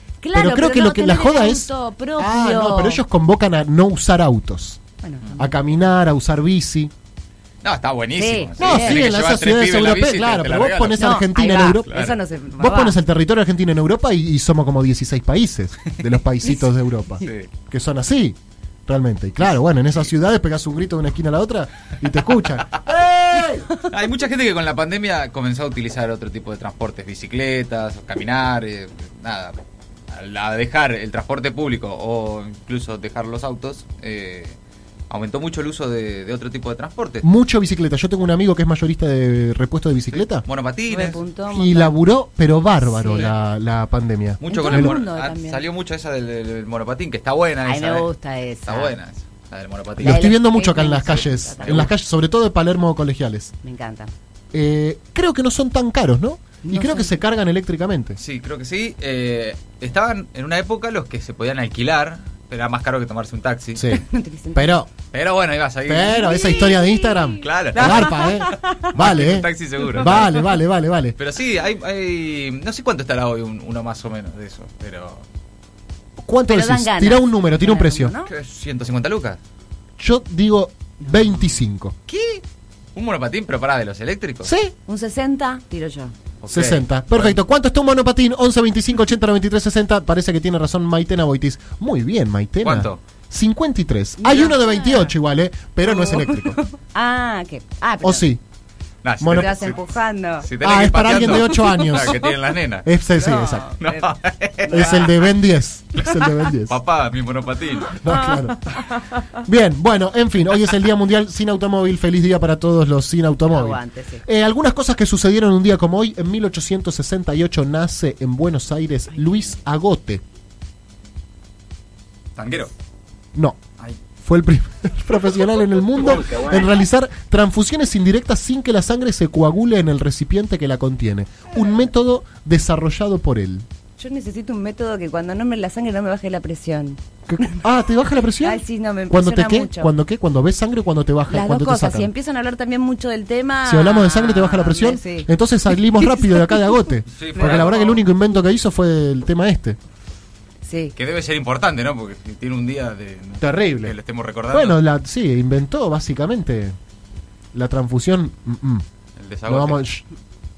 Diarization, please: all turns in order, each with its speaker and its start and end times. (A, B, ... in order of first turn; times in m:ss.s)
0:00.2-0:03.0 A
0:00.3-0:04.8 B
0:05.0-0:05.5 A
0:05.4-0:06.9 B
0:07.6-0:11.0 C
0:08.2-0:09.0 A
0:08.6-0:11.9 B
0:11.0-0:13.0 A
0:11.9-0:12.2 C
0:12.6-0:23.7 B
0:17.2-0:17.5 C
0:23.9-0:29.6 C
0:30.1-0:34.6 C
0:35.1-0:37.3 C
0:37.2-0:40.4 B
0:40.1-0:41.2 C
0:40.9-0:42.0 A
0:41.5-0:45.0 B
0:42.8-0:43.3 A
0:44.4-0:48.1 C
0:44.5-0:45.6 A
0:47.7-0:48.9 A
0:48.7-0:50.3 C
0:50.0-0:53.5 B
0:50.0-0:51.9 A
0:51.6-0:51.9 C
0:53.6-0:54.1 A
0:54.5-0:58.2 B
0:56.7-0:57.1 A
0:58.2-1:03.8 C
1:03.8-1:04.9 B
1:03.9-1:04.7 A
1:05.1-1:06.2 C
1:05.9-1:11.2 B
1:06.1-1:08.9 A
1:07.4-1:10.4 C
1:10.0-1:10.4 A
1:11.2-1:15.2 C
1:16.2-1:18.1 B
1:16.5-1:18.3 A
1:18.3-1:19.4 C
1:20.0-1:22.0 B
1:22.1-1:22.4 C
1:23.0-1:24.5 C
1:24.4-1:24.8 B
1:24.9-1:26.1 A
1:26.4-1:27.4 C
1:26.5-1:36.6 B
1:32.6-1:33.0 C
1:34.2-1:35.2 A
1:35.8-1:38.3 A
1:38.0-1:38.4 B
1:39.0-1:39.8 C
1:39.2-1:39.7 B
1:39.3-1:40.5 A
1:40.4-1:42.9 C
1:40.6-1:42.3 B
1:41.2-1:42.1 A
1:42.8-1:43.7 B
1:43.2-1:44.1 A
1:43.8-1:45.3 C
1:44.6-1:45.1 A
1:44.7-1:46.8 B
1:46.7-1:48.0 C
1:48.0-1:48.7 B
1:48.1-1:49.2 A
1:49.4-2:00.2 B
1:53.5-1:54.2 A
2:02.4-2:02.7 C
2:03.4-2:03.6 B
2:04.2-2:13.7 B
2:14.0-2:17.6 A
2:17.3-2:22.1 B
2:18.4-2:19.9 A
2:21.3-2:26.6 A
2:23.6-2:29.8 B
2:27.1-2:28.0 C
2:27.4-2:27.7 A
2:30.6-2:30.9 A
2:31.0-2:34.8 C
2:33.4-2:34.0 B
2:34.5-2:36.8 B
2:37.5-2:38.8 B
2:39.2-2:39.8 C
2:39.5-2:40.0 B